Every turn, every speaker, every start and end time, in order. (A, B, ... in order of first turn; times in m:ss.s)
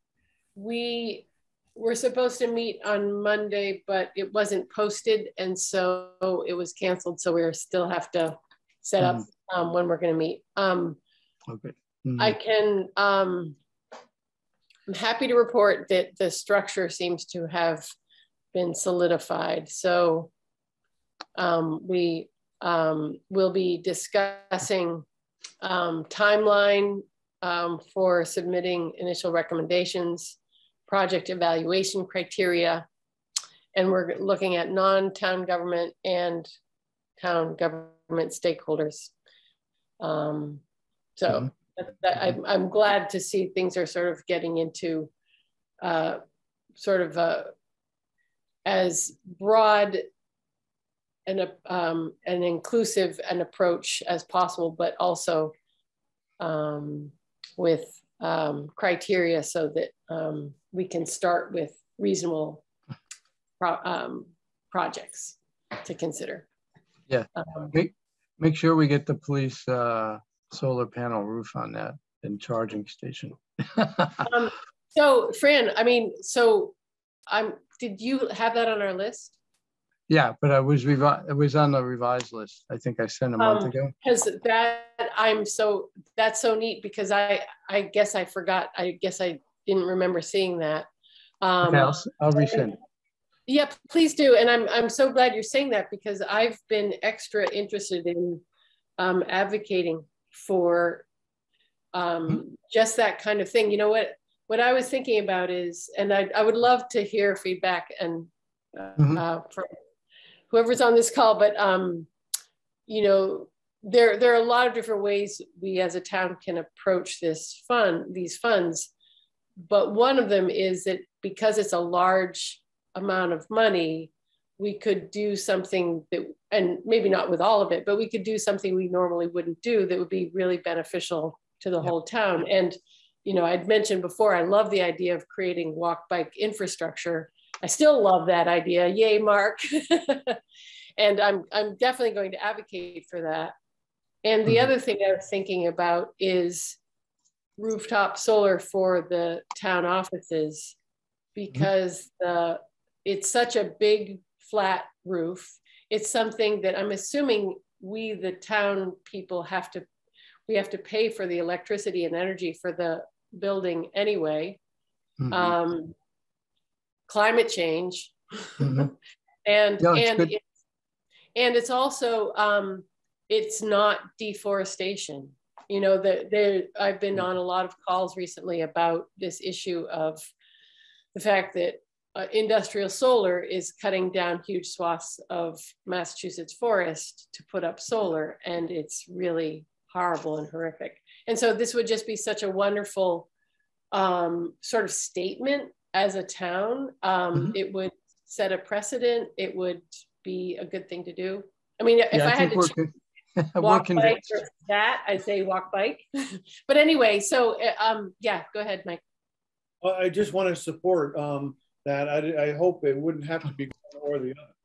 0:00.6-0:11.0 A
0:09.0-0:09.2 B
0:11.5-0:12.4 B
0:12.2-0:13.6 A
0:14.9-0:17.9 A
0:18.5-0:20.3 A
0:21.4-0:25.0 A
0:25.6-0:32.8 A
0:33.7-0:36.5 A
0:37.2-0:39.1 A
0:40.0-0:40.6 A
0:41.2-0:45.1 A
0:45.8-0:46.2 A
0:46.8-0:47.5 A
0:48.6-0:50.0 A
0:51.2-0:55.5 A
0:56.4-1:02.6 A
1:03.6-1:06.4 A
1:07.1-1:14.3 B
1:07.4-1:07.7 A
1:14.2-1:16.8 A
1:17.3-1:19.3 A
1:20.1-1:23.9 B
1:23.4-1:30.9 A
1:31.4-1:32.6 A
1:31.6-1:32.8 B
1:33.5-1:38.4 A
1:39.0-1:41.0 A
1:41.9-1:49.8 A
1:49.0-1:49.2 B
1:50.5-1:52.1 A
1:52.9-1:58.9 A
1:59.6-2:20.4 A
2:21.0-2:23.5 A
2:24.2-2:26.8 A
2:27.6-2:30.7 A
2:31.3-2:39.8 A
2:40.5-2:44.6 A
2:45.2-2:45.5 B
2:45.3-2:45.9 A
2:47.1-2:48.9 A
2:48.6-2:48.9 B
2:49.4-2:50.4 A
2:49.8-2:50.3 B
2:51.3-3:00.3 A
3:01.1-3:13.3 A
3:13.9-3:22.7 A
3:22.1-3:24.4 B
3:23.6-3:29.0 A
3:29.8-3:34.5 C